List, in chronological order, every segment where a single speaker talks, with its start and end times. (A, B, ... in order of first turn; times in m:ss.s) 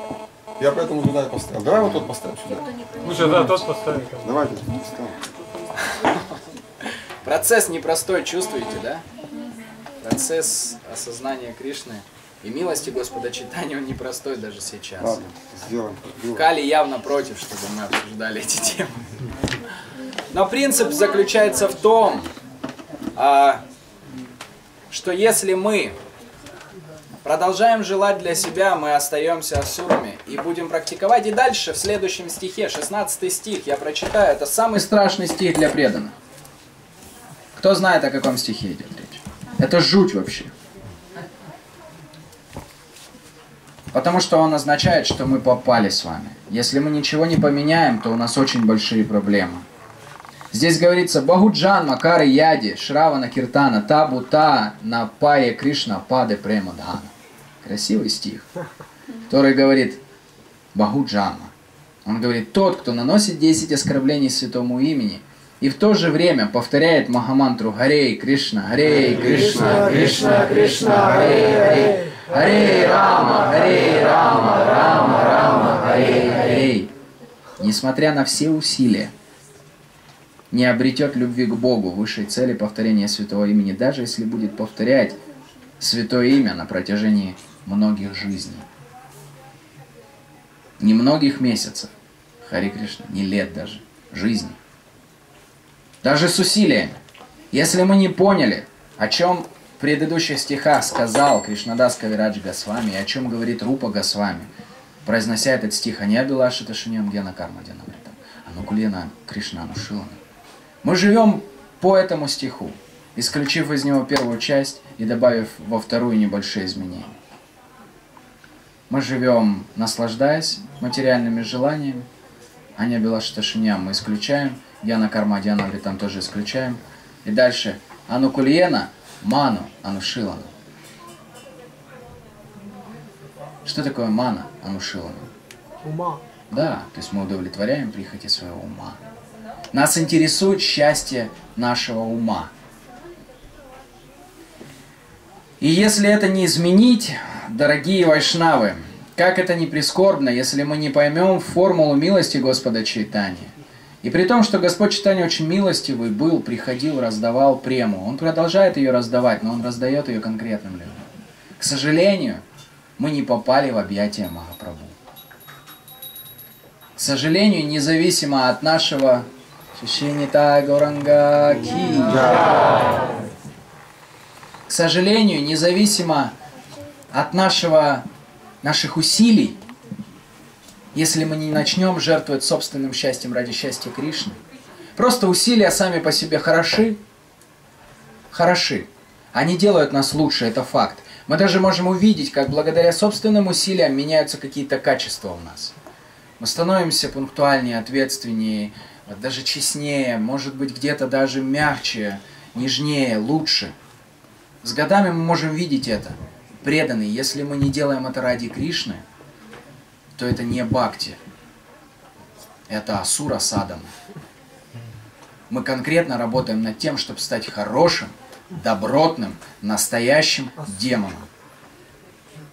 0:00.6-0:05.3 A
0:03.1-0:04.2 B
0:07.2-0:09.0 C
0:10.0-0:15.2 C
0:15.0-0:16.5 A
0:16.3-0:19.1 C
0:20.3-0:22.3 C
0:23.2-0:23.6 C
0:24.9-0:26.0 C
0:27.2-0:36.1 C
0:37.6-0:40.5 C
0:43.9-0:49.6 C
0:50.5-0:57.1 C
0:57.6-0:58.5 C
0:59.3-1:00.0 C
1:00.7-1:01.5 C
1:02.0-1:16.9 C
1:09.6-1:10.8 B
1:17.6-1:19.1 C
1:20.5-1:25.2 C
1:25.8-1:28.7 C
1:30.8-1:31.9 C
1:32.4-1:34.6 C
1:36.0-1:37.0 C
1:37.5-1:44.5 C
1:45.0-1:50.2 C
1:50.8-1:57.2 C
1:58.9-2:02.1 C
2:02.8-2:10.5 C
2:13.6-2:15.3 C
2:15.8-2:16.2 B
2:16.5-2:19.0 C
2:19.7-2:22.5 C
2:25.6-2:41.1 C
2:41.6-2:42.4 C
2:43.0-2:45.0 C
2:47.0-2:52.5 C
2:54.7-2:56.4 C
2:57.1-2:58.0 C
2:58.6-2:59.6 C
3:00.9-3:04.4 C
3:05.0-3:07.0 C
3:08.3-3:15.7 C
3:16.4-3:23.7 C
3:24.6-3:29.0 C
3:30.2-3:31.2 C
3:32.7-3:33.9 C
3:35.5-3:41.3 C